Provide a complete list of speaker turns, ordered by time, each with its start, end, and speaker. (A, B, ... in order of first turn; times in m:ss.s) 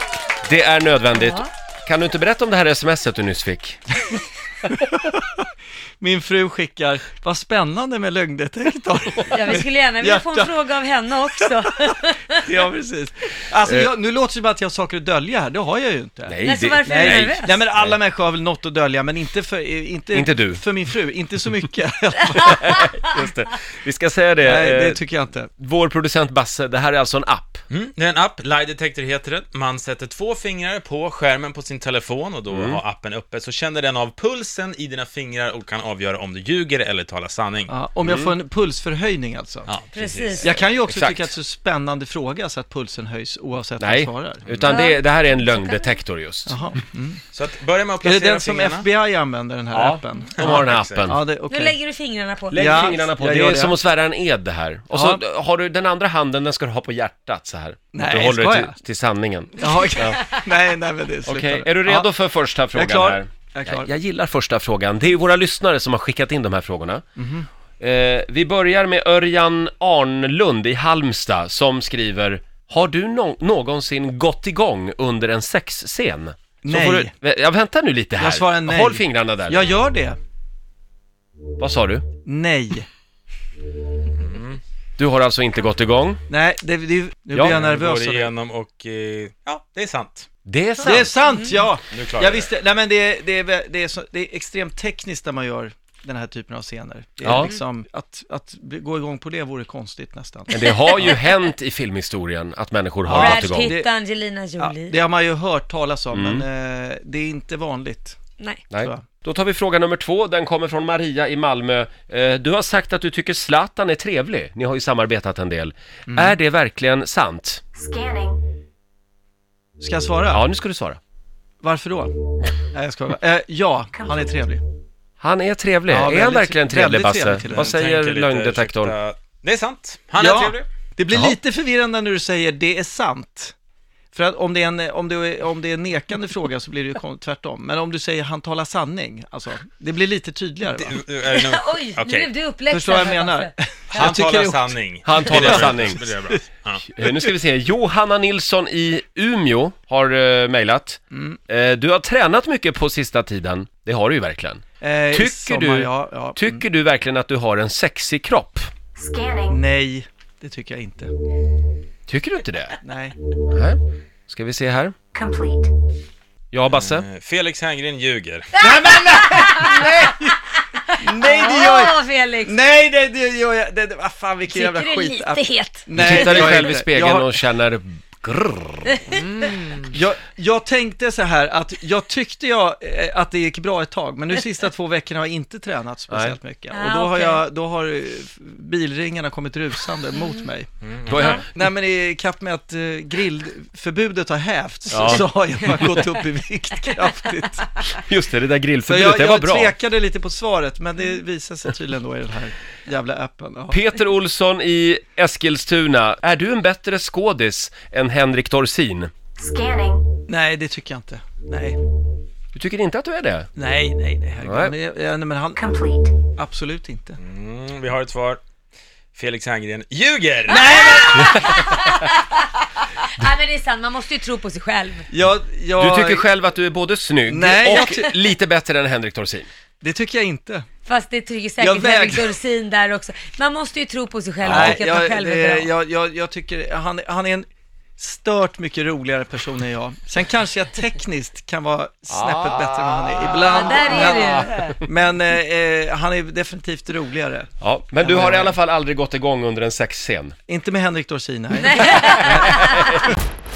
0:00.4-0:03.8 A
0:01.1-0:01.5 B
0:04.6-0:05.4 C
0:06.0-0:10.6 C
0:09.3-0:12.5 B
0:12.4-0:22.9 C
0:16.3-0:18.0 A
0:16.4-0:17.6 B
0:20.1-0:20.6 A
0:22.4-0:25.0 A
0:24.4-0:25.5 C
0:25.6-0:27.6 A
0:27.7-0:37.7 D
0:32.5-0:32.8 A
0:37.7-0:39.7 C
0:38.0-0:38.3 A
0:39.7-0:40.4 D
0:39.9-0:40.5 B
0:40.4-0:44.4 C
0:40.9-0:41.3 A
0:43.8-0:46.5 A
0:44.5-0:44.7 D
0:44.6-0:46.0 B
0:46.5-0:47.2 C
0:47.3-0:48.9 D
0:48.0-0:51.7 C
0:49.7-0:51.2 A
0:50.4-0:51.1 D
0:51.5-0:53.0 B
0:52.5-1:00.2 A
0:52.6-0:53.8 C
0:54.9-0:55.2 C
0:57.9-0:58.8 C
0:59.6-1:02.1 C
1:01.3-1:07.0 A
1:02.7-1:03.9 C
1:07.2-1:07.5 C
1:07.8-1:19.7 A
1:16.6-1:17.1 C
1:18.2-1:20.2 C
1:21.6-1:22.0 A
1:22.2-1:22.9 C
1:24.2-1:24.6 D
1:25.0-1:26.2 A
1:26.3-1:28.3 C
1:27.4-1:27.6 A
1:27.5-1:30.3 D
1:30.5-1:31.1 A
1:30.8-1:41.0 C
1:31.3-1:31.6 B
1:31.9-1:32.5 D
1:37.2-1:37.5 A
1:40.5-1:43.7 A
1:40.7-1:41.2 B
1:43.1-1:43.9 C
1:43.1-1:45.0 B
1:44.6-1:48.2 C
1:46.1-1:46.4 A
1:48.7-1:57.6 A
1:48.8-1:49.1 C
1:56.1-1:56.4 C
1:57.8-1:58.4 E
1:59.8-2:00.4 C
2:00.3-2:01.0 A
2:01.6-2:04.6 C
2:05.2-2:09.0 A
2:05.9-2:07.7 C
2:07.4-2:10.7 D
2:10.2-2:13.5 C
2:14.1-2:21.0 C
2:20.8-2:22.3 D
2:21.3-2:23.5 B
2:22.7-2:26.3 C
2:23.9-2:26.8 D
2:25.0-2:26.1 A
2:26.9-2:38.7 A
2:31.1-2:31.4 C
2:34.8-2:36.6 C
2:39.0-2:39.6 E
2:39.5-2:41.1 C
2:42.1-2:42.8 A
2:42.8-2:43.2 C
2:43.5-2:45.0 A
2:45.2-2:45.7 E
2:46.5-2:47.0 A
2:46.7-2:48.6 D
2:48.6-2:50.4 C
2:49.0-2:52.6 B
2:51.0-2:57.4 C
2:54.5-2:56.4 B
2:56.0-2:59.4 A
2:58.9-2:59.9 B
2:59.9-3:17.7 C
3:06.1-3:06.4 A
3:06.7-3:07.4 B
3:10.8-3:11.2 D
3:11.1-3:11.4 A
3:14.9-3:15.8 A
3:18.0-3:19.7 A
3:18.9-3:23.8 C
3:23.7-3:29.1 A
3:29.4-3:30.1 E
3:30.3-3:31.8 C
3:32.5-3:33.5 A
3:33.6-3:35.7 C
3:34.4-3:34.7 A
3:35.6-3:36.2 E
3:36.2-3:37.2 C
3:37.2-3:38.4 D
3:39.2-3:41.0 D
3:40.5-3:41.5 C
3:41.0-3:42.5 B
3:43.0-3:45.1 B
3:45.1-3:46.3 C
3:45.8-3:49.5 A
3:47.3-3:48.1 C
3:49.8-3:50.7 C
3:50.8-3:55.7 B
3:51.6-3:52.3 C
3:54.4-3:57.5 C
3:54.5-3:54.8 A
3:58.0-4:08.6 C
4:02.1-4:04.5 A
4:03.4-4:04.7 B
4:07.6-4:10.4 A
4:10.5-4:12.6 C
4:11.6-4:12.8 B
4:12.3-4:13.0 A